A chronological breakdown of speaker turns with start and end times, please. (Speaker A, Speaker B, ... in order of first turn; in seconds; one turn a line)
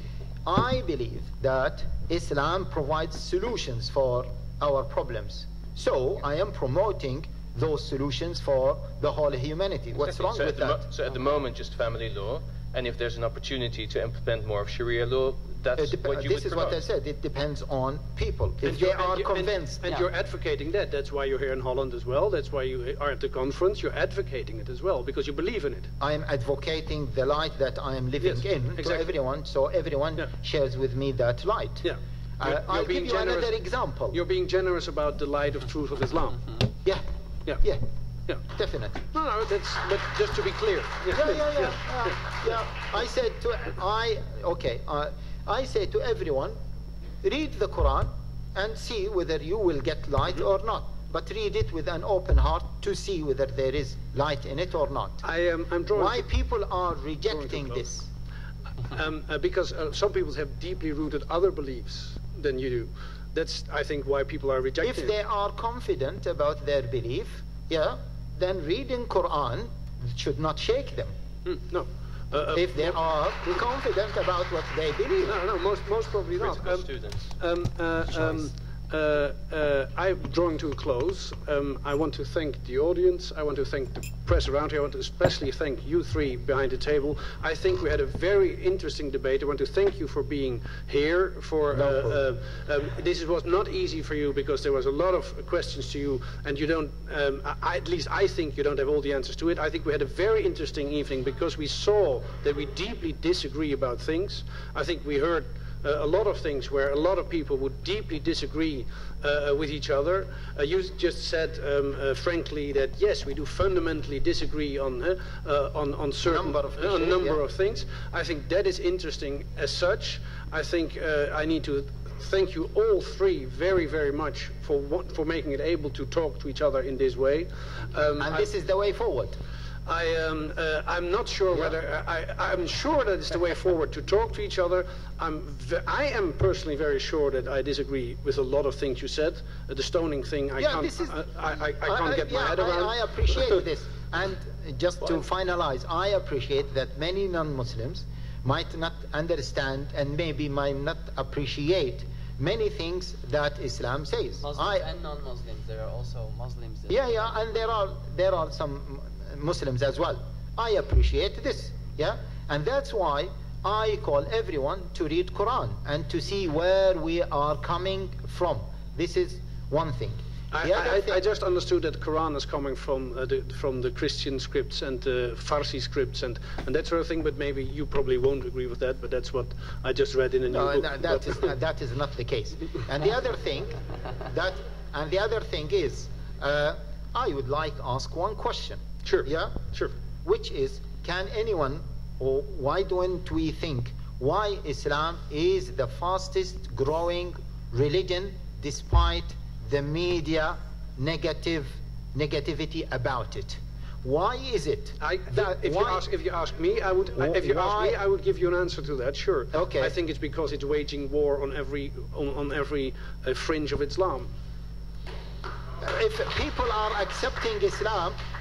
Speaker A: 0.5-10.8
Speaker B: 10.0-16.8
Speaker A: 15.8-19.8
Speaker C: 18.6-25.9
Speaker A: 26.0-31.9
Speaker C: 28.2-29.1
Speaker C: 31.8-33.5
Speaker A: 32.4-34.2
Speaker C: 34.1-36.5
Speaker A: 38.5-39.0
Speaker C: 39.1-42.4
Speaker A: 41.1-46.6
Speaker A: 47.2-55.2
Speaker C: 55.2-56.2
Speaker A: 55.9-58.1
Speaker C: 57.3-57.9
Speaker C: 58.9-65.2
Speaker A: 64.8-71.1
Speaker C: 71.5-73.0
Speaker A: 72.5-75.4
Speaker C: 75.2-128.5
Speaker B: 76.4-77.4
Speaker B: 78.1-78.5
Speaker A: 91.7-92.2
Speaker A: 116.2-117.4
Speaker A: 128.2-129.4
Speaker C: 129.9-143.6
Speaker A: 140.6-141.2
Speaker A: 141.8-154.9
Speaker D: 154.4-157.4
Speaker A: 156.9-171.2
Speaker C: 170.5-181.5
Speaker A: 180.5-189.6
Speaker C: 189.0-189.9
Speaker A: 190.2-206.1
Speaker C: 205.0-214.3
Speaker A: 207.2-208.0
Speaker A: 209.5-209.9
Speaker A: 215.8-218.2